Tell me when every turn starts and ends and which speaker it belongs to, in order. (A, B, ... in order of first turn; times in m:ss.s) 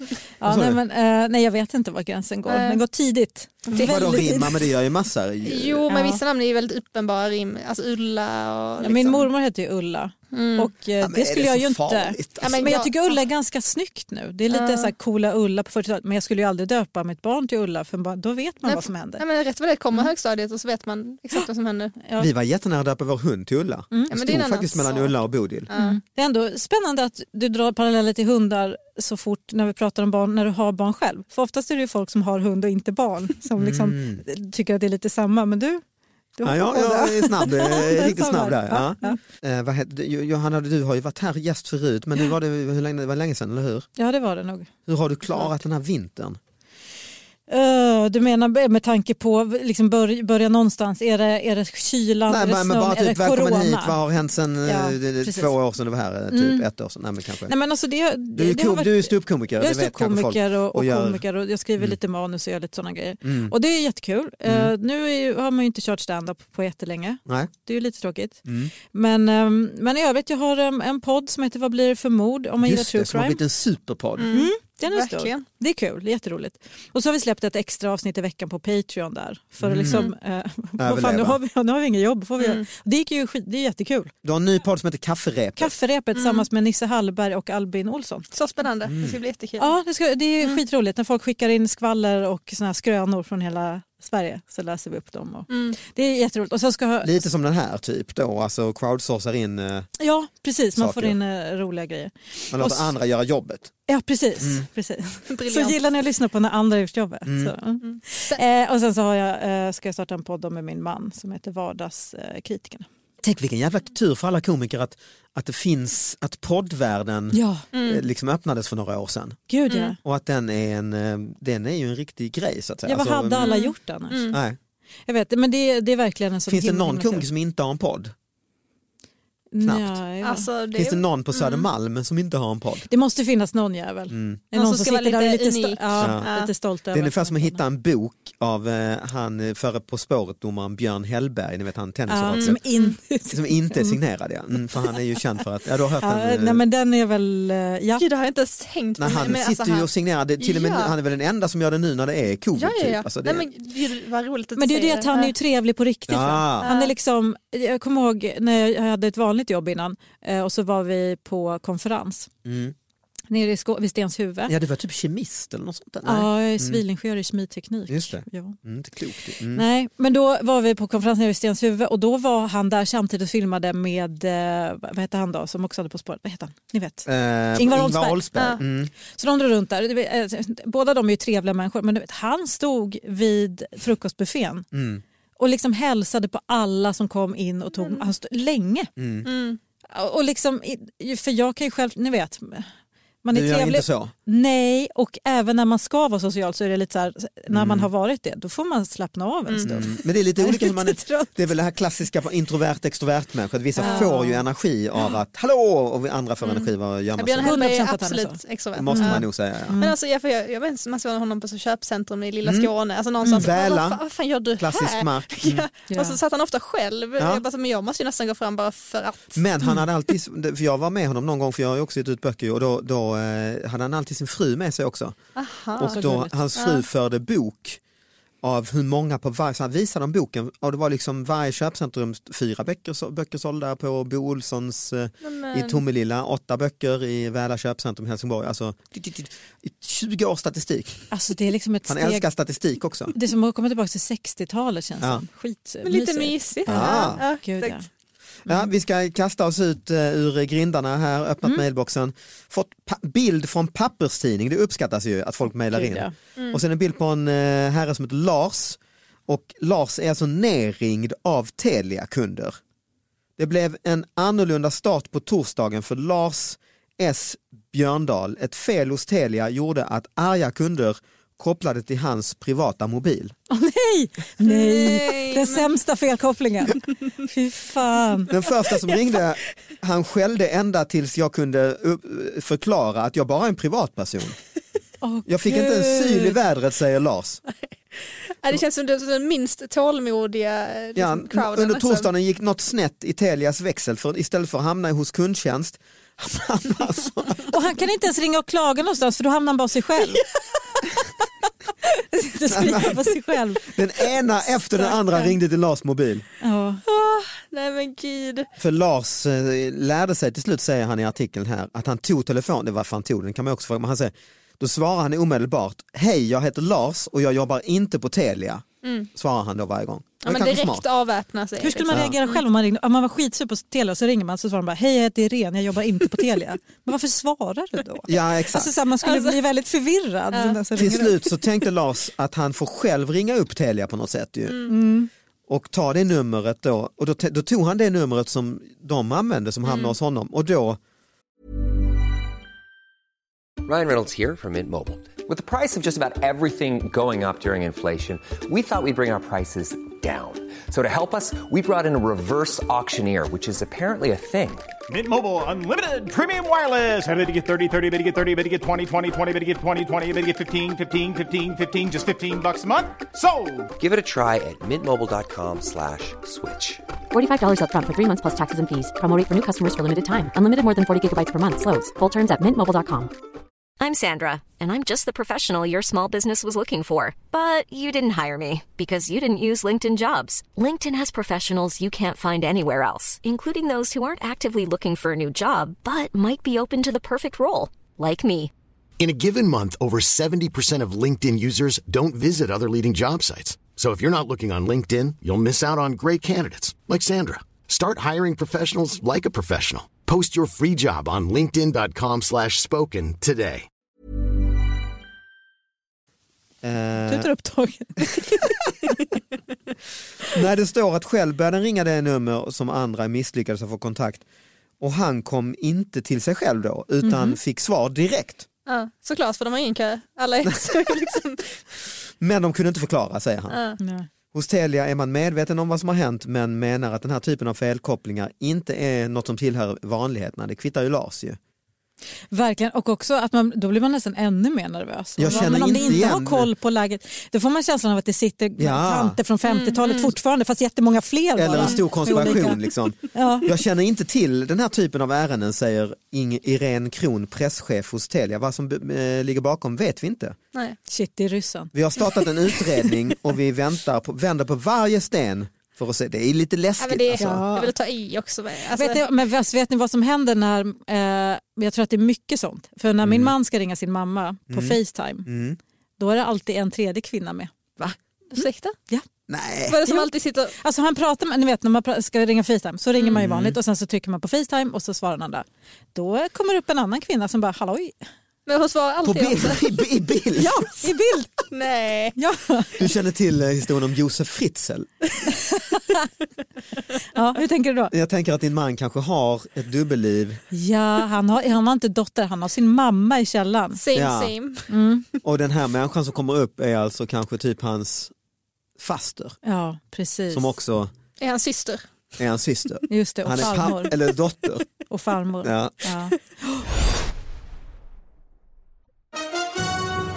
0:00.3-0:04.6 A
0:00.4-0:00.8 B
0:02.5-0:02.8 C
0:03.7-0:04.0 C
0:03.7-0:05.8 B
0:05.4-0:09.3 C
0:05.9-0:06.2 A
0:08.8-0:19.2 A
0:10.3-0:10.7 C
0:11.0-0:12.8 B
0:12.4-0:13.2 C
0:14.5-0:14.9 C
0:18.6-0:21.9 C
0:22.2-0:25.7 B
0:24.1-0:25.1 C
0:25.7-0:26.0 C
0:25.7-0:35.8 A
0:33.6-0:34.2 B
0:36.4-0:39.2 A
0:36.4-0:43.9 B
0:44.0-0:44.7 A
0:44.9-0:46.4 B
0:47.5-0:54.0 A
0:52.3-0:57.5 B
0:54.6-0:55.6 A
0:56.3-0:56.7 A
0:57.5-1:13.4 A
0:58.3-1:01.2 B
1:03.2-1:03.5 B
1:04.4-1:04.7 B
1:07.2-1:07.5 B
1:08.4-1:08.7 B
1:12.6-1:14.3 B
1:14.2-1:15.4 C
1:14.3-1:24.1 A
1:19.6-1:20.1 B
1:19.8-1:20.1 C
1:20.8-1:21.4 B
1:22.4-1:22.6 C
1:24.2-1:25.7 B
1:25.6-1:28.3 A
1:26.1-1:26.4 C
1:28.3-1:29.7 C
1:28.8-1:29.2 B
1:29.6-1:37.2 A
1:35.5-1:35.8 C
1:37.0-1:39.9 B
1:40.0-1:42.9 A
1:40.8-1:41.2 B
1:42.5-1:43.7 B
1:43.9-1:52.9 A
1:45.3-1:45.8 C
1:47.2-1:47.5 B
1:47.8-1:48.4 C
1:53.2-1:59.4 B
1:57.3-1:57.6 A
1:57.7-1:58.0 C
1:59.5-2:00.0 A
2:00.0-2:03.5 B
2:02.8-2:04.3 A
2:03.4-2:04.4 C
2:04.3-2:04.6 B
2:05.1-2:07.2 A
2:06.5-2:08.1 B
2:09.5-2:10.5 A
2:09.6-2:10.0 B
2:10.2-2:11.7 C
2:10.7-2:12.9 B
2:12.9-2:17.6 A
2:14.1-2:14.4 B
2:14.5-2:16.5 C
2:16.0-2:16.3 B
2:16.9-2:22.6 B
2:22.1-2:24.0 A
2:22.4-2:22.9 C
2:23.3-2:26.6 B
2:26.0-2:28.0 A
2:28.0-2:30.9 C
2:29.0-2:33.5 B
2:32.6-2:35.3 C
2:34.6-2:42.3 A
2:36.1-2:36.7 B
2:36.6-2:36.9 C
2:42.4-2:42.7 B
2:43.3-2:44.5 A
2:44.5-2:46.8 B
2:46.0-2:48.6 A
2:47.9-2:49.6 B
2:49.5-2:58.2 A
2:57.0-2:58.9 B
2:59.1-3:04.7 A
3:04.7-3:05.0 B
3:05.4-3:08.9 A
3:07.7-3:08.1 C
3:09.0-3:09.3 B
3:09.2-3:09.6 C
3:09.9-3:12.7 A
3:13.2-3:21.4 A
3:13.3-3:14.1 B
3:17.5-3:17.9 B
3:19.6-3:27.6 B
3:23.8-3:24.4 A
3:23.8-3:24.1 C
3:26.4-3:39.4 C
3:27.4-3:28.4 A
3:28.8-3:29.8 B
3:28.9-3:30.0 A
3:32.4-3:32.7 B
3:33.3-3:34.0 B
3:34.6-3:35.7 B
3:35.9-3:36.2 A
3:37.2-3:37.4 B
3:39.3-3:45.2 B
3:45.4-3:46.0 C
3:45.8-3:47.8 B
3:45.9-3:46.4 A
3:46.6-3:46.8 C
3:48.4-4:01.1 B
3:55.2-3:55.8 C
4:01.1-4:02.2 A
4:01.9-4:03.1 B
4:03.1-4:07.9 A
4:05.8-4:07.8 C
4:06.7-4:07.2 B
4:08.4-4:22.6 B
4:15.7-4:16.1 A
4:23.4-4:33.3 B
4:33.5-4:38.3 A
4:34.4-4:35.6 C
4:38.3-4:44.4 B
4:45.0-4:46.4 A
4:45.3-4:47.4 B
4:47.9-4:52.1 C
4:50.9-4:57.5 B
4:57.5-5:00.2 A
5:01.8-5:03.7 A
5:02.5-5:03.0 B
5:03.6-5:06.2 B
5:04.7-5:05.3 A
5:06.4-5:06.8 A
5:06.9-5:08.5 C
5:08.6-5:20.8 B
5:18.8-5:19.1 C
5:20.2-5:22.4 C
5:21.6-5:31.2 A
5:21.9-5:22.2 B
5:28.1-5:28.7 B
5:29.0-5:29.4 C
5:30.3-5:30.8 C
5:30.8-5:34.7 B
5:34.7-5:35.1 A
5:35.5-5:40.8 B
5:39.6-5:39.9 C
5:43.6-5:54.7 D
5:54.9-6:03.7 E
6:03.8-6:06.8 D
6:07.1-6:13.1 F
6:13.8-6:28.5 G
6:29.0-6:43.7 H
6:46.6-6:47.3 B
6:47.1-6:48.4 A
6:50.3-6:54.2 B
6:54.8-6:58.5 B
6:57.0-6:57.4 A
6:58.7-7:01.6 C
7:00.4-7:00.9 B
7:02.2-7:03.6 B
7:03.5-7:03.8 C
7:03.8-7:04.1 A
7:04.3-7:11.4 B
7:12.3-7:22.6 A
7:15.2-7:16.5 B
7:15.2-7:16.0 C
7:18.6-7:19.2 B
7:19.4-7:20.1 C
7:21.4-7:30.4 B
7:21.6-7:22.4 C
7:23.1-7:23.5 A
7:30.9-7:32.0 A
7:31.7-7:37.4 B
7:36.8-7:39.0 C
7:37.2-7:37.7 A
7:38.7-7:45.3 A
7:43.0-7:43.3 B
7:44.5-7:45.6 B
7:46.0-7:47.5 A
7:48.3-7:48.8 C
7:48.3-7:49.0 A
7:49.3-7:49.8 B
7:49.7-7:50.5 C
7:49.8-7:58.0 A
7:53.1-7:53.6 B
7:58.4-7:59.8 C
7:59.0-8:00.5 B
8:00.4-8:01.5 A
8:01.5-8:02.2 C
8:02.2-8:02.8 A
8:02.8-8:04.9 B
8:05.3-8:06.0 A
8:07.1-8:07.9 A
8:07.9-8:10.4 B
8:10.5-8:13.8 A
8:13.7-8:14.7 C
8:13.9-8:14.3 B
8:14.7-8:15.0 A
8:15.2-8:18.1 B
8:18.8-8:19.4 B
8:19.4-8:20.5 A
8:20.3-8:20.9 B
8:21.2-8:21.9 C
8:22.2-8:24.6 B
8:22.9-8:23.9 A
8:24.9-8:26.1 A
8:25.4-8:25.8 B